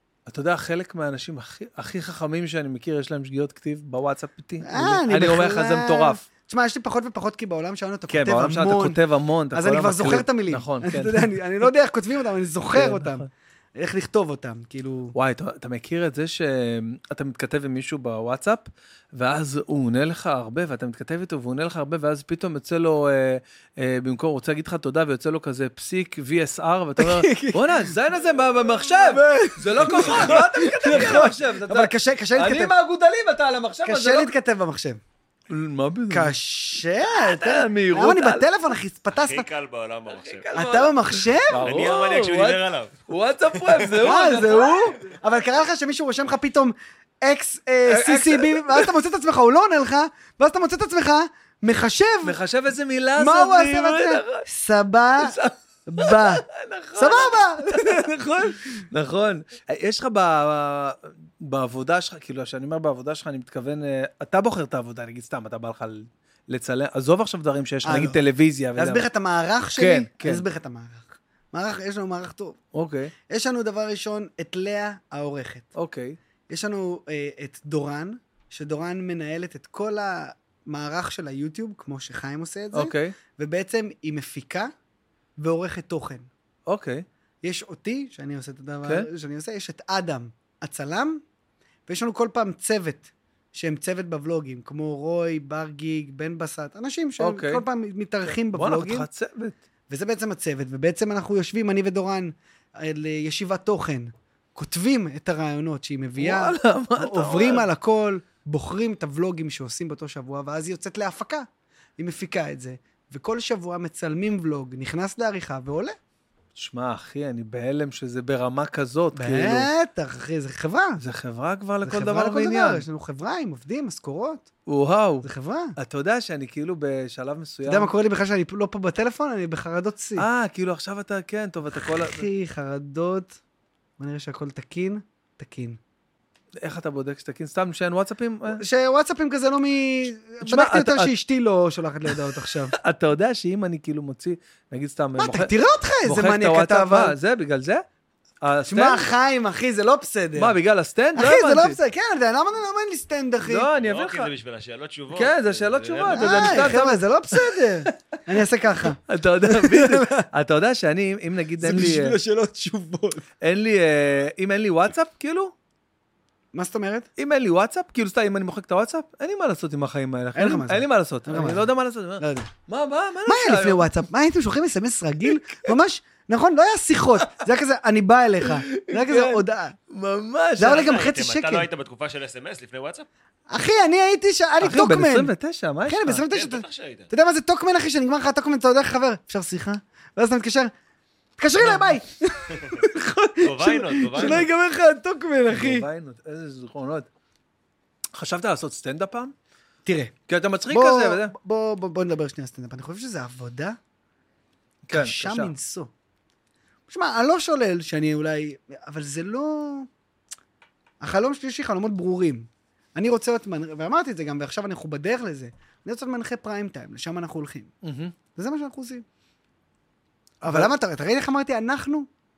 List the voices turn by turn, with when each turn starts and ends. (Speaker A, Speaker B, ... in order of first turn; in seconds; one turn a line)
Speaker A: 0.3-6.2
Speaker B: 4.6-9.0
Speaker A: 8.1-11.7
Speaker B: 9.5-15.1
Speaker A: 12.7-13.3
Speaker A: 15.1-34.3
Speaker B: 27.0-27.9
Speaker B: 28.8-32.8
Speaker B: 33.8-35.0
Speaker A: 35.5-36.3
Speaker B: 36.1-39.5
Speaker A: 37.0-38.5
Speaker C: 39.1-40.5
Speaker A: 40.1-45.1
Speaker B: 40.5-41.6
Speaker C: 41.5-43.9
Speaker B: 44.0-52.4
Speaker A: 47.9-49.0
Speaker A: 52.2-54.5
Speaker B: 53.2-55.3
Speaker A: 55.2-69.0
Speaker B: 55.9-56.4
Speaker B: 57.0-58.8
Speaker B: 67.8-68.2
Speaker B: 68.8-72.6
Speaker A: 69.8-70.5
Speaker A: 72.7-73.1
Speaker B: 73.3-75.7
Speaker A: 75.7-76.2
Speaker B: 76.5-84.7
Speaker A: 82.7-83.2
Speaker B: 85.4-86.3
Speaker A: 86.7-87.0
Speaker B: 87.4-91.2
Speaker B: 91.9-99.1
Speaker A: 97.2-97.6
Speaker A: 98.5-99.6
Speaker B: 99.9-111.5
Speaker A: 106.2-107.7
Speaker B: 112.0-116.0
Speaker A: 116.5-119.7
Speaker B: 119.1-121.0
Speaker A: 121.0-122.8
Speaker B: 121.8-124.5
Speaker A: 124.7-127.9
Speaker B: 125.2-125.8
Speaker B: 127.7-130.3
Speaker A: 130.2-132.3
Speaker B: 131.8-133.4
Speaker B: 134.0-135.8
Speaker A: 136.6-138.6
Speaker B: 138.5-142.7
Speaker A: 140.4-141.1
Speaker A: 142.1-145.5
Speaker B: 145.2-147.2
Speaker A: 146.1-147.8
Speaker A: 148.4-149.1
Speaker B: 148.7-150.6
Speaker A: 150.4-151.8
Speaker B: 151.2-153.7
Speaker A: 153.4-154.3
Speaker C: 153.8-156.6
Speaker A: 155.1-157.7
Speaker B: 156.1-160.3
Speaker A: 158.4-162.2
Speaker B: 161.6-163.2
Speaker A: 163.4-165.5
Speaker B: 166.5-167.1
Speaker A: 167.2-174.0
Speaker B: 170.3-172.5
Speaker B: 173.3-179.8
Speaker A: 175.2-175.7
Speaker A: 178.4-181.0
Speaker B: 180.6-181.7
Speaker C: 180.6-183.1
Speaker B: 183.5-185.3
Speaker A: 184.6-186.2
Speaker B: 185.9-190.7
Speaker C: 186.3-187.1
Speaker B: 191.4-195.9
Speaker C: 193.4-194.4
Speaker A: 194.1-194.5
Speaker A: 195.5-197.1
Speaker A: 198.1-199.3
Speaker B: 199.9-200.1
Speaker A: 200.3-201.3
Speaker B: 200.7-203.8
Speaker A: 204.9-205.5
Speaker B: 204.9-205.9
Speaker B: 206.9-209.9
Speaker B: 211.0-217.7
Speaker A: 217.8-218.1
Speaker B: 218.3-219.1
Speaker B: 220.4-222.1
Speaker A: 220.4-220.7